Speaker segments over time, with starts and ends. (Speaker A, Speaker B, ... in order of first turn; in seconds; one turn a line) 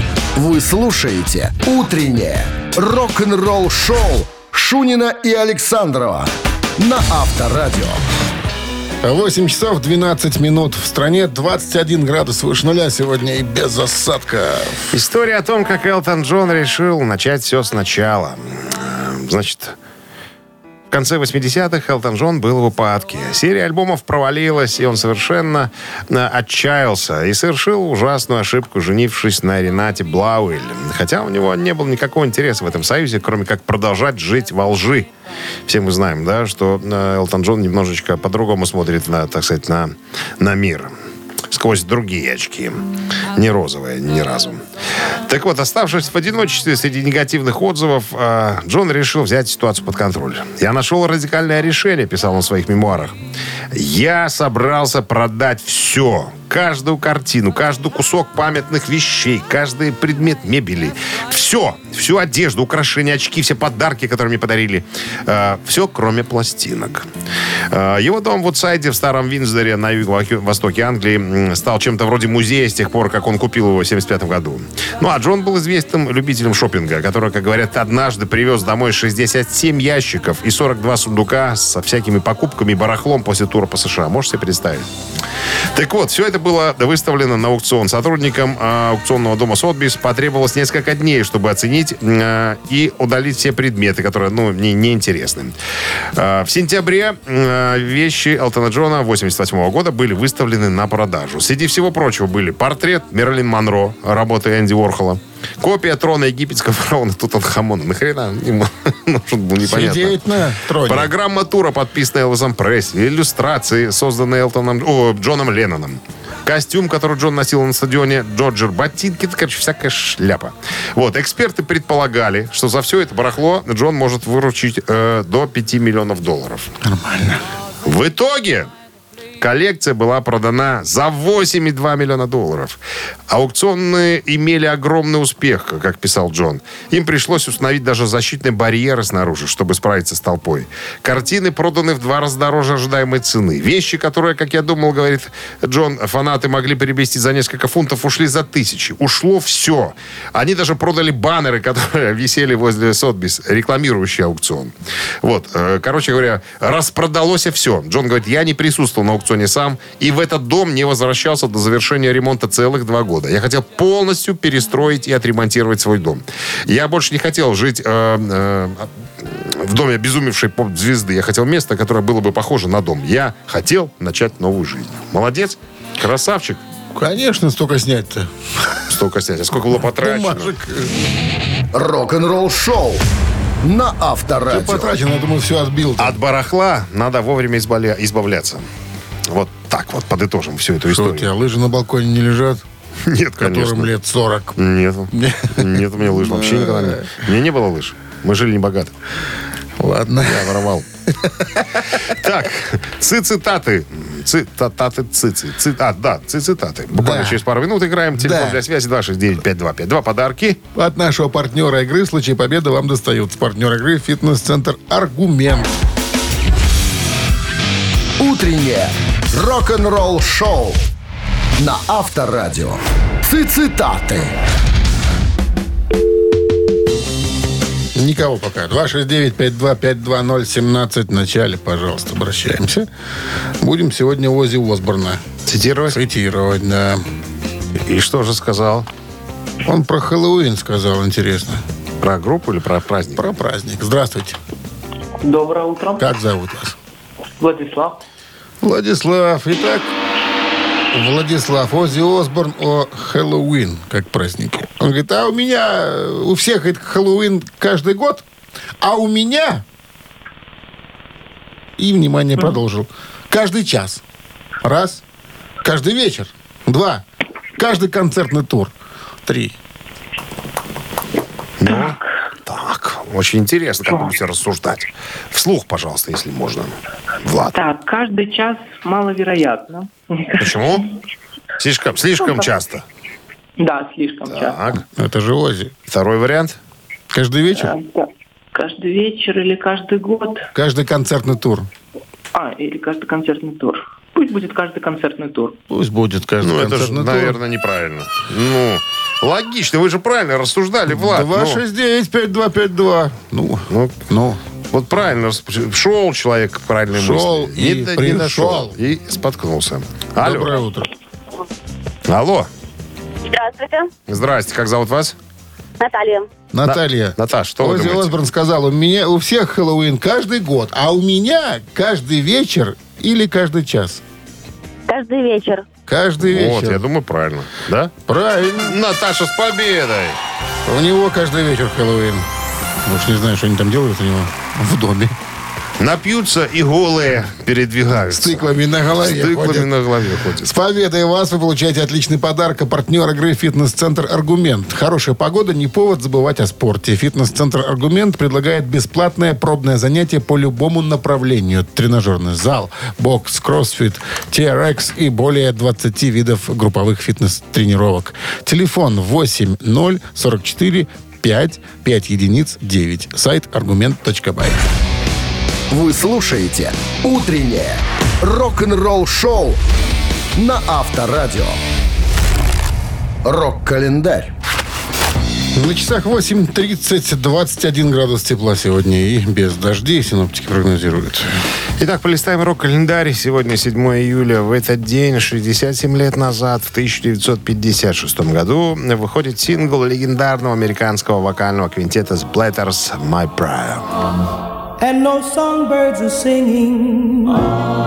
Speaker A: 0.4-8.0
Speaker B: 9.0-14.9
Speaker C: 14.9-19.8
Speaker C: 20.9-35.1
Speaker C: 35.7-40.9
Speaker C: 41.5-42.8
Speaker C: 43.3-44.6
Speaker C: 45.2-53.2
Speaker C: 53.7-67.1
Speaker C: 67.7-84.9
Speaker C: 85.7-95.5
Speaker C: 96.2-110.2
Speaker B: 109.6-111.1
Speaker C: 110.8-126.7
Speaker B: 126.8-127.4
Speaker C: 127.8-128.7
Speaker C: 129.4-132.8
Speaker C: 133.3-154.7
Speaker C: 155.2-176.6
Speaker B: 176.9-178.8
Speaker C: 178.9-180.5
Speaker B: 180.0-180.9
Speaker A: 181.7-183.0
Speaker A: 183.6-185.0
Speaker B: 184.5-186.2
Speaker C: 186.0-188.7
Speaker C: 189.3-191.3
Speaker B: 190.9-192.6
Speaker C: 193.1-193.9
Speaker B: 193.4-194.6
Speaker C: 194.6-198.9
Speaker B: 195.1-197.2
Speaker B: 199.8-201.8
Speaker C: 200.2-200.8
Speaker C: 202.0-210.6
Speaker B: 206.9-207.4
Speaker B: 208.1-208.6
Speaker B: 210.8-215.8
Speaker A: 218.2-220.9
Speaker A: 221.6-224.3
Speaker B: 227.9-232.9
Speaker B: 233.6-235.2
Speaker C: 235.5-236.0
Speaker B: 235.9-237.0
Speaker C: 237.9-238.9
Speaker B: 239.7-241.6
Speaker C: 242.0-243.3
Speaker B: 243.2-244.4
Speaker D: 245.2-246.1
Speaker B: 246.0-246.8
Speaker D: 247.4-248.0
Speaker B: 248.6-249.9
Speaker B: 250.9-258.2
Speaker B: 258.8-259.6
Speaker B: 261.8-264.0
Speaker B: 264.6-265.0
Speaker B: 265.6-267.1
Speaker B: 267.6-269.6
Speaker C: 271.6-277.6
Speaker D: 271.7-272.0
Speaker D: 277.5-280.8
Speaker C: 280.4-280.9
Speaker C: 281.6-282.8
Speaker D: 282.2-282.5
Speaker D: 283.6-284.6
Speaker C: 284.3-284.8
Speaker B: 285.0-285.7
Speaker C: 285.9-286.6
Speaker B: 287.1-287.8
Speaker D: 287.6-290.5
Speaker B: 290.5-291.7
Speaker D: 292.3-295.6
Speaker B: 295.7-297.4
Speaker C: 296.4-301.6
Speaker B: 300.9-304.4
Speaker C: 304.7-310.5
Speaker B: 306.9-308.8
Speaker B: 310.2-310.9
Speaker C: 312.1-312.5
Speaker E: 313.3-313.9
Speaker C: 314.1-315.1
Speaker E: 315.8-316.3
Speaker B: 316.5-324.0
Speaker C: 316.7-318.2
Speaker E: 324.9-325.7
Speaker B: 325.9-326.8
Speaker C: 326.2-327.9
Speaker B: 328.1-328.8
Speaker C: 328.6-330.2
Speaker B: 330.7-332.3
Speaker B: 332.9-335.1
Speaker C: 335.8-338.5
Speaker B: 338.1-339.7
Speaker C: 339.0-340.5
Speaker B: 340.4-364.6
Speaker A: 365.7-369.6
Speaker A: 370.4-371.6
Speaker A: 373.2-374.3
Speaker B: 375.6-381.3
Speaker C: 381.8-393.9
Speaker F: 394.8-397.4